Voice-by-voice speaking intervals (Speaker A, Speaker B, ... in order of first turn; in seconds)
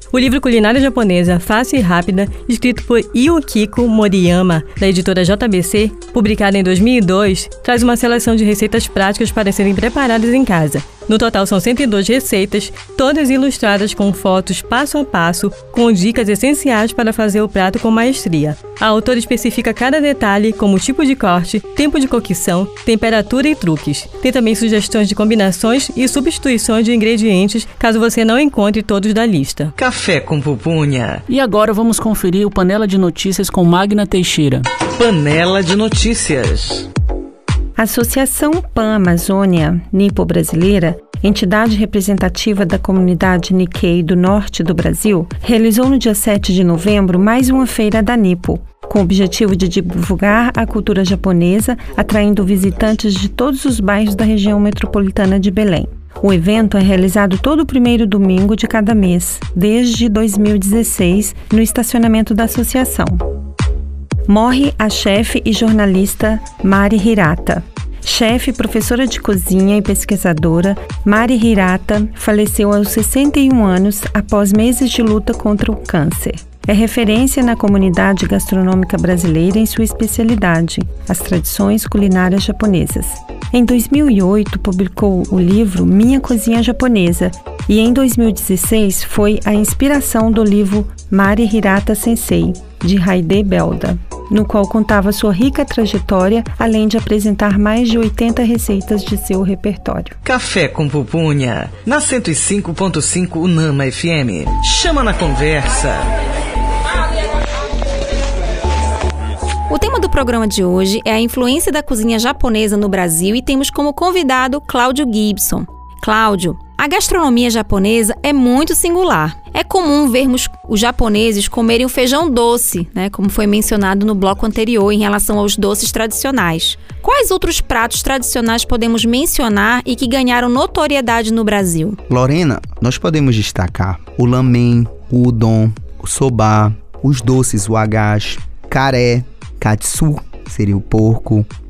Speaker A: 0.1-29.7
Speaker B: 29.8-31.2, 34.9-36.9, 100.2-106.1
Speaker C: 31.3-34.7
Speaker D: 37.8-63.2, 64.3-100.2
Speaker E: 109.7-132.0
Speaker F: 132.1-141.5